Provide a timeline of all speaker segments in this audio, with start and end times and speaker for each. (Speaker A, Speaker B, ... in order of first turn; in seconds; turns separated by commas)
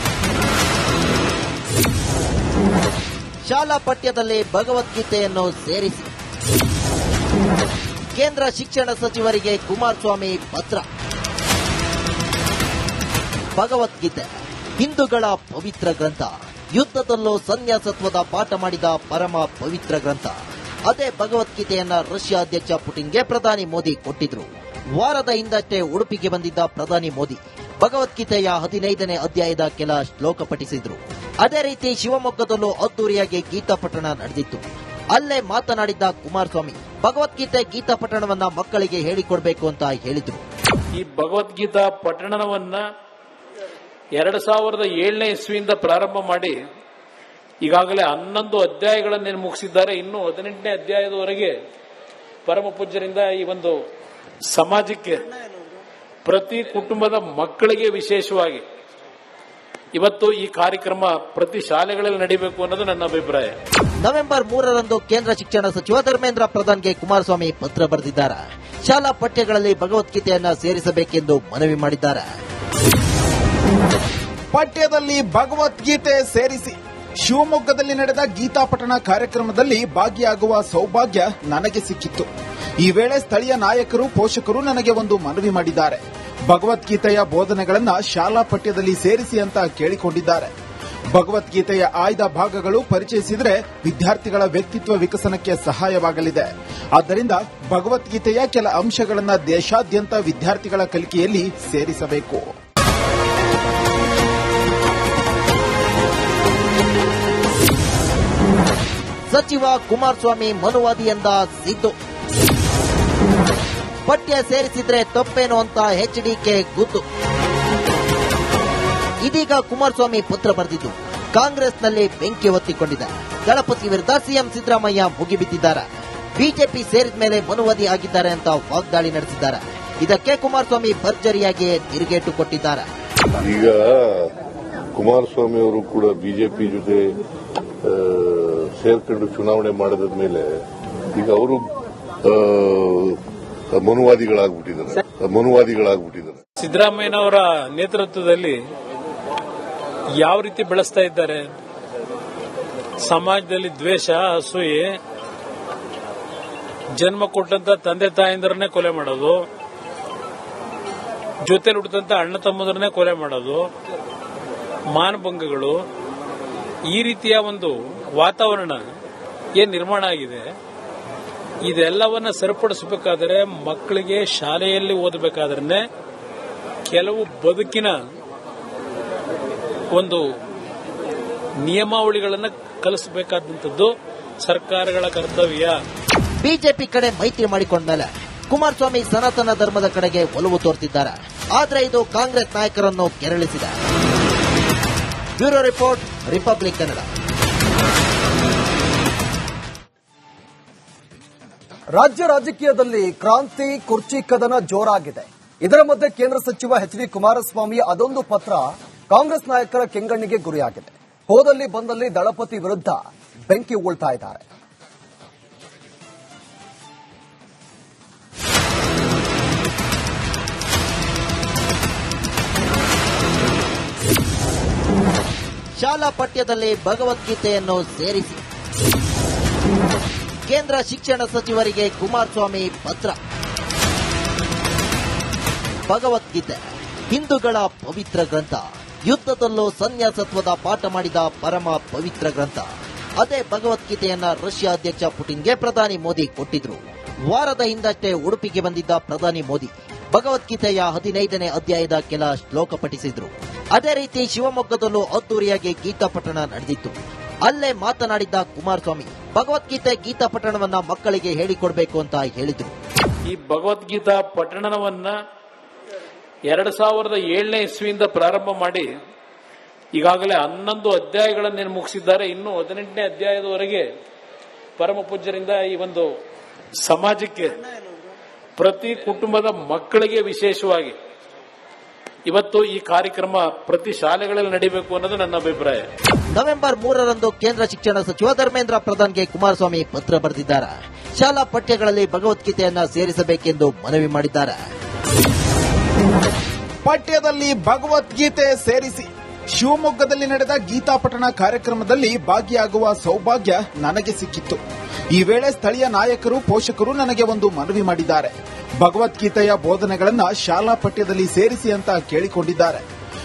Speaker A: 3.5-6.1, Speaker A: 8.1-10.8, Speaker A: 13.6-40.4, Speaker B: 41.0-42.8, Speaker B: 44.1-46.5, Speaker B: 47.6-51.5, Speaker B: 52.4-53.8, Speaker B: 54.5-55.2, Speaker B: 56.2-58.6, Speaker B: 59.9-63.5, Speaker A: 64.0-72.2, Speaker C: 74.5-82.3, Speaker C: 82.8-90.5, Speaker C: 91.1-102.5, Speaker A: 109.3-111.9, Speaker A: 114.0-117.0, Speaker A: 119.2-132.9, Speaker D: 133.4-134.3, Speaker D: 134.9-137.2, Speaker D: 137.8-140.4, Speaker D: 141.1-141.7, Speaker D: 142.2-143.2, Speaker D: 143.7-146.4, Speaker B: 146.6-148.6, Speaker B: 150.2-151.5, Speaker B: 153.0-154.9, Speaker B: 157.0-159.4, Speaker B: 161.4-163.7, Speaker B: 164.9-165.8, Speaker B: 166.9-168.8, Speaker B: 169.6-170.5, Speaker B: 171.6-175.8, Speaker B: 176.9-178.0, Speaker B: 179.9-180.2, Speaker B: 181.6-183.9, Speaker B: 184.4-185.8, Speaker A: 186.4-193.8, Speaker A: 195.4-197.1, Speaker E: 201.9-214.4, Speaker A: 225.8-228.4, Speaker A: 230.4-233.2, Speaker A: 235.9-242.7, Speaker A: 243.2-262.8, Speaker B: 263.3-265.1, Speaker B: 266.5-268.9, Speaker B: 269.9-273.8, Speaker B: 274.8-276.1, Speaker B: 276.8-277.6, Speaker B: 278.6-280.9, Speaker B: 282.3-285.8, Speaker A: 286.3-294.6, Speaker C: 296.8-304.6, Speaker C: 305.1-312.8